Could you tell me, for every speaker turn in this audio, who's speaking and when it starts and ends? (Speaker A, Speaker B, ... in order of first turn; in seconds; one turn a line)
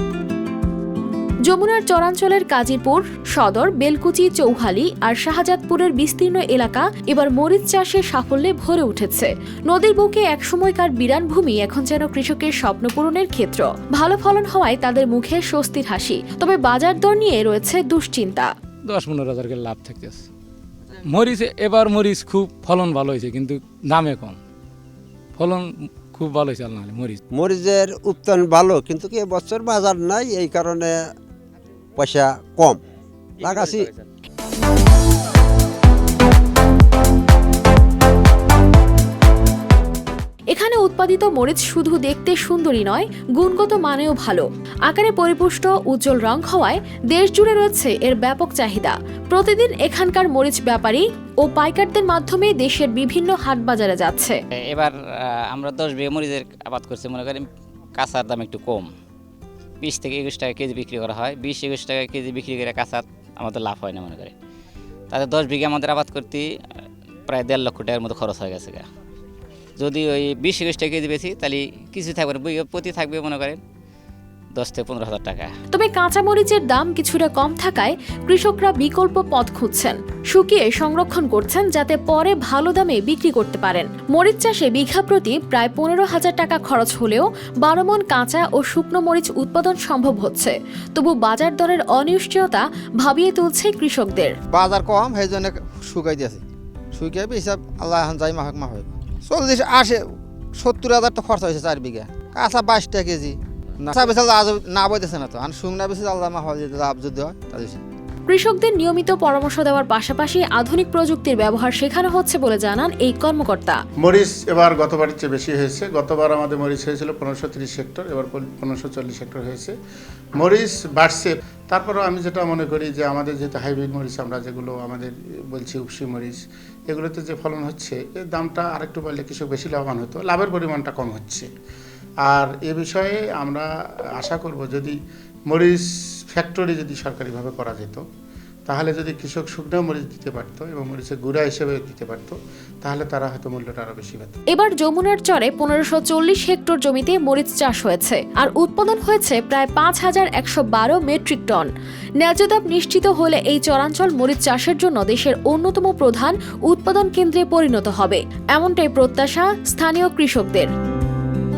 Speaker A: 1.5-18.5
Speaker B: 18.9-20.2
Speaker B: 21.1-24.4
Speaker B: 25.4-27.2
Speaker C: 27.3-31.1
Speaker C: 32.0-32.8
Speaker C: 33.4-33.9
Speaker A: 40.5-54.4
Speaker D: 54.6-58.9
Speaker D: 59.8-64.3
Speaker D: 65.1-66.5
Speaker D: 67.3-68.8
Speaker D: 69.8-73.6
Speaker D: 74.5-75.5
Speaker A: 75.7-94.3
Speaker E: 94.5-96.4
Speaker E: 96.9-107.8
Speaker A: 108.3-113.8
Speaker F: 114.0-119.7
Speaker F: 120.4-131.5
Speaker F: 132.2-133.7
Speaker F: 134.2-135.0
Speaker F: 135.5-138.0
Speaker F: 138.7-144.4
Speaker A: 144.5-160.7